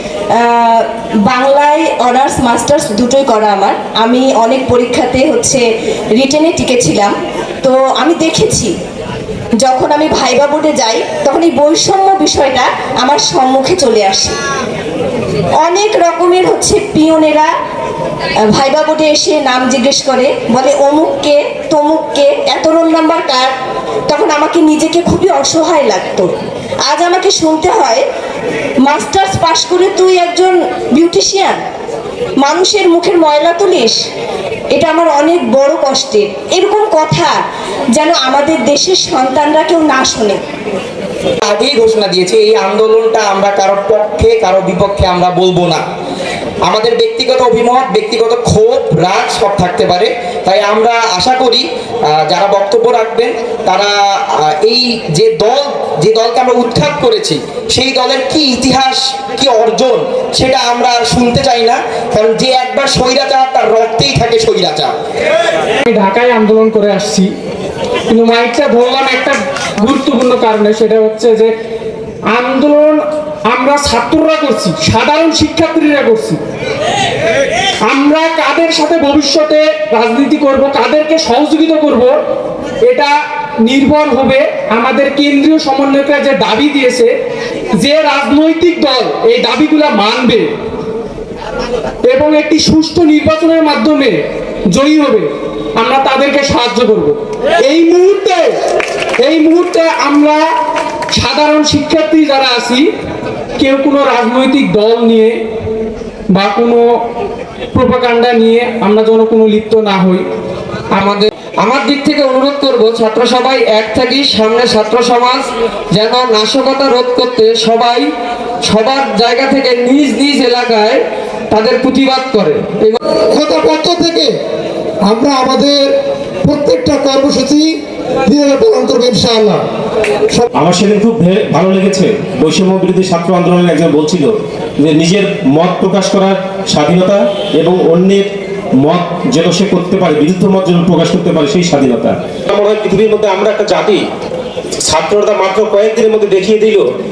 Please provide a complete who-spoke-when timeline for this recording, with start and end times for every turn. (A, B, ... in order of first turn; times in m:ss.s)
0:00.3-0:05.6 A
0:06.2-0:08.7 A
0:09.6-0:14.4 A
0:15.6-0:17.5 A
0:18.5-0:23.5 A
0:24.1-0:26.3 A
0:26.8-0:28.0 A
0:28.8-0:31.6 A
0:32.4-0:34.0 A
0:34.7-0:37.4 A
0:37.9-0:40.4 A
0:41.4-0:45.8 B
0:46.6-1:04.9 B
1:05.9-1:07.3 C
1:08.1-1:11.5 C
1:12.3-1:16.4 C
1:17.9-1:22.2 C
1:22.9-1:27.1 C
1:27.8-1:30.5 C
1:32.1-1:34.2 C
1:34.7-1:38.6 C
1:39.2-1:40.5 C
1:41.1-1:42.8 C
1:43.6-1:45.4 C
1:46.3-1:46.9 C
1:47.7-1:50.2 C
1:50.9-1:58.1 D
1:58.6-2:03.0 D
2:03.3-2:04.3 E
2:05.0-2:05.8 E
2:06.4-2:07.7 E
2:08.3-2:09.6 E
2:10.6-2:18.3 F
2:18.8-2:24.0 F
2:24.8-2:26.8 F